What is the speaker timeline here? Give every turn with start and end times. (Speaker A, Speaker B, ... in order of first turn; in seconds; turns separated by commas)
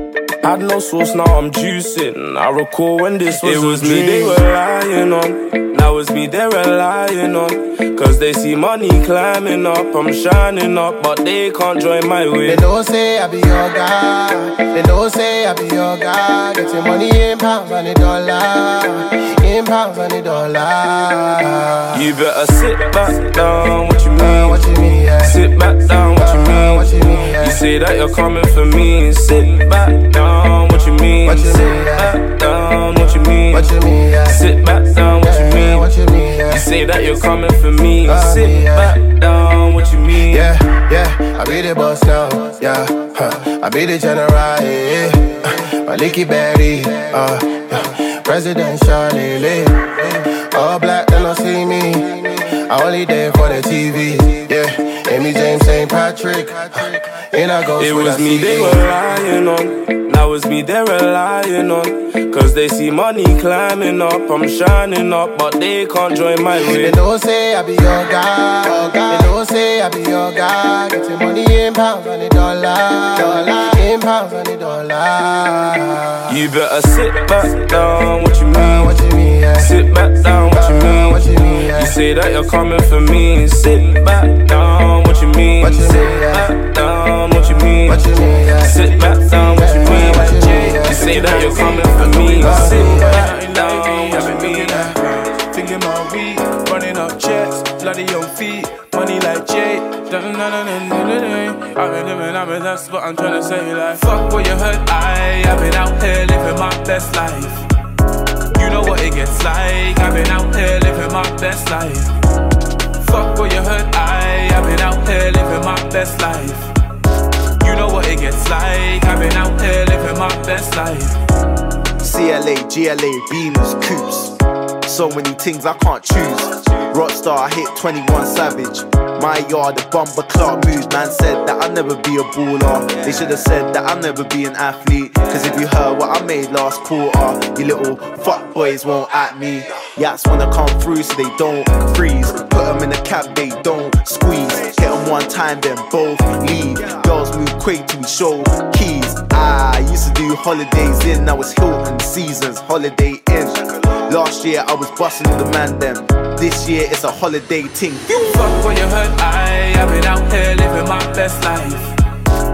Speaker A: 0.4-12.6, Speaker B: 12.4-22.1, Speaker A: 21.9-24.6, Speaker B: 24.2-25.4, Speaker A: 25.2-35.9, Speaker B: 26.1-27.6, Speaker B: 31.2-32.1, Speaker B: 33.5-34.5, Speaker B: 35.2-36.7, Speaker A: 36.5-40.5, Speaker B: 38.0-39.0, Speaker B: 40.2-58.8, Speaker A: 57.7-67.0, Speaker B: 66.5-76.4, Speaker A: 76.3-79.0, Speaker B: 78.5-79.8, Speaker A: 79.5-95.0, Speaker B: 80.5-82.0, Speaker B: 85.6-86.5, Speaker B: 87.8-88.8, Speaker C: 89.0-89.5, Speaker B: 89.5-91.1, Speaker C: 90.2-94.8, Speaker B: 92.4-93.3, Speaker C: 95.6-107.6, Speaker C: 108.6-110.3, Speaker C: 111.3-112.1, Speaker C: 113.0-116.7, Speaker C: 117.6-118.4, Speaker C: 119.0-120.2, Speaker C: 120.8-121.2, Speaker D: 122.0-158.6, Speaker C: 158.3-161.9